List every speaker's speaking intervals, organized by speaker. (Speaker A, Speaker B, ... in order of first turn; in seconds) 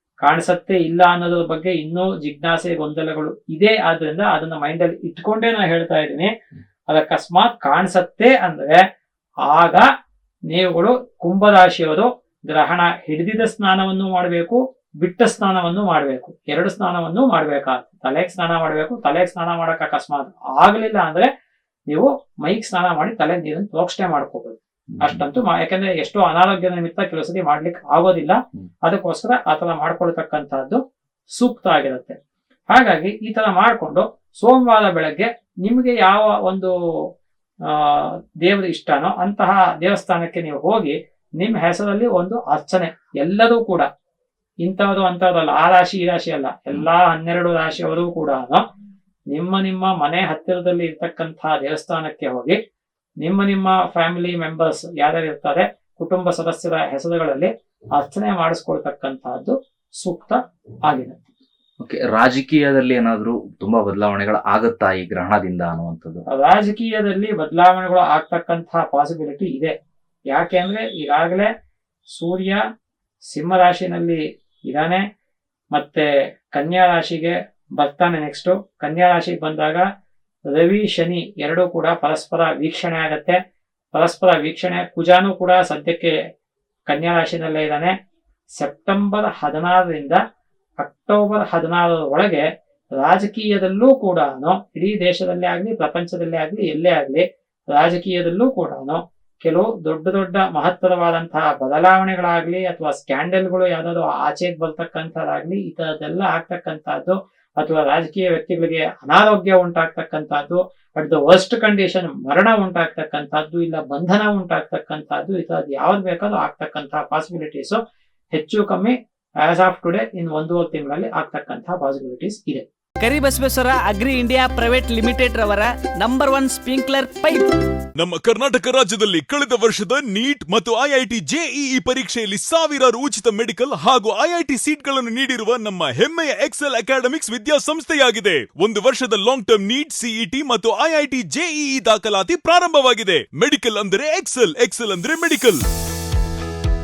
Speaker A: 0.2-6.3, 6.9-8.8, 9.4-9.9, 10.5-21.3, 21.9-30.8, 31.3-32.2, 32.7-36.7, 37.6-43.9, 44.6-48.6, 49.3-52.6, 53.2-61.2, 66.3-69.7, 70.3-71.5, 72.1-72.6, 73.3-75.0, 75.7-79.9, 80.5-83.4, 83.9-86.2, 86.9-87.9, 88.6-90.2, 90.8-117.8, 118.3-122.7
Speaker B: 24.9-25.2, 61.8-66.2
Speaker C: 123.0-127.5
Speaker D: 128.0-145.6